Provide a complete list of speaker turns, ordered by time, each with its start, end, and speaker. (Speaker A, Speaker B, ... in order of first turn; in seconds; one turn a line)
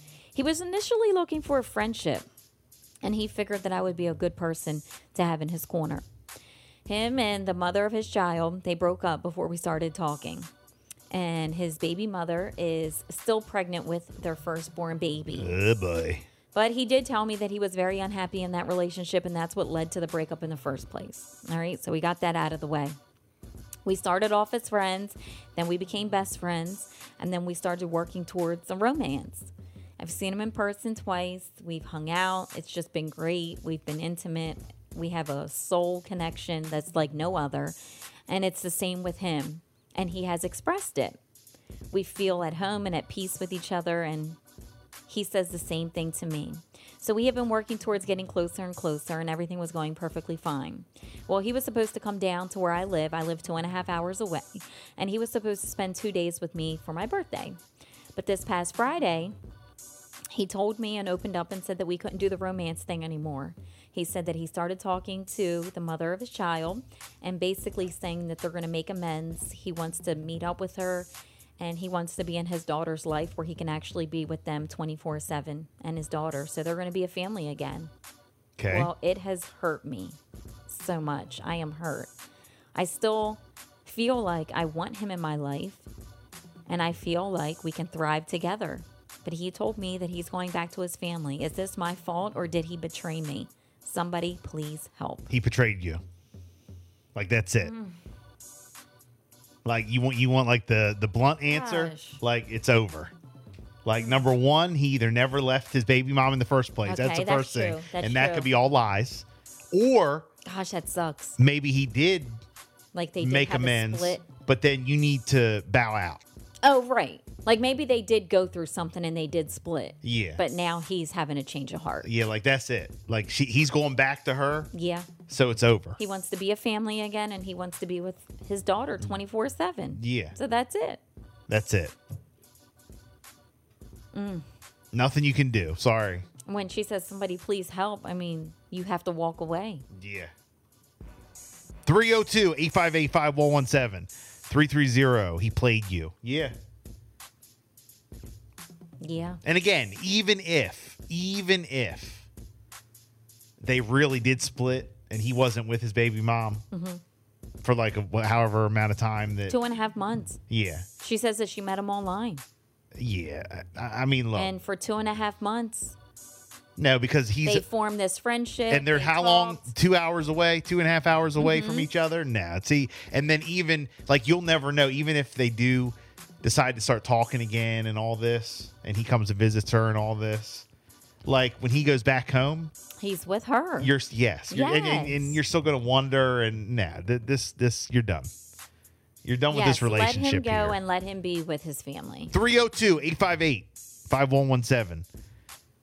Speaker A: 0.3-2.3
Speaker A: 3.0-6.0
Speaker A: 6.9-10.5
Speaker A: 11.1-15.6
Speaker B: 15.4-16.2
Speaker A: 16.5-23.0
Speaker A: 23.8-37.8
Speaker A: 38.3-41.2
Speaker A: 41.9-44.4
Speaker A: 45.1-57.6
Speaker A: 58.1-59.4
Speaker A: 60.3-77.9
Speaker B: 78.6-78.9
Speaker A: 78.7-82.1
Speaker A: 82.8-85.8
Speaker A: 86.7-95.3
Speaker B: 95.3-96.0
Speaker B: 97.2-97.7
Speaker A: 97.6-98.0
Speaker B: 99.7-103.1
Speaker A: 101.4-102.2
Speaker B: 103.8-110.3
Speaker A: 106.8-108.5
Speaker A: 110.4-111.4
Speaker B: 111.4-112.4
Speaker A: 112.9-114.2
Speaker B: 113.2-116.2
Speaker A: 116.6-122.1
Speaker B: 120.0-120.4
Speaker B: 122.0-124.7
Speaker A: 124.7-125.1
Speaker B: 125.3-126.0
Speaker A: 126.0-131.0
Speaker B: 129.9-130.4
Speaker B: 131.5-131.9
Speaker A: 134.1-134.5
Speaker B: 134.9-136.2
Speaker A: 136.5-139.8
Speaker B: 139.9-140.3
Speaker B: 141.8-146.6
Speaker A: 149.0-149.4
Speaker B: 149.4-152.3
Speaker B: 153.6-156.6
Speaker A: 156.7-157.0
Speaker B: 157.6-159.6
Speaker A: 159.5-160.4
Speaker B: 160.5-160.9
Speaker A: 161.0-162.4
Speaker B: 163.0-164.5
Speaker A: 164.3-166.0
Speaker B: 166.8-167.7
Speaker A: 167.4-169.7
Speaker B: 168.7-180.7
Speaker A: 171.4-171.9
Speaker B: 181.2-182.7
Speaker A: 183.0-183.9
Speaker B: 183.8-188.3
Speaker A: 184.5-185.4
Speaker B: 189.2-190.8
Speaker A: 189.5-192.3
Speaker B: 192.3-195.1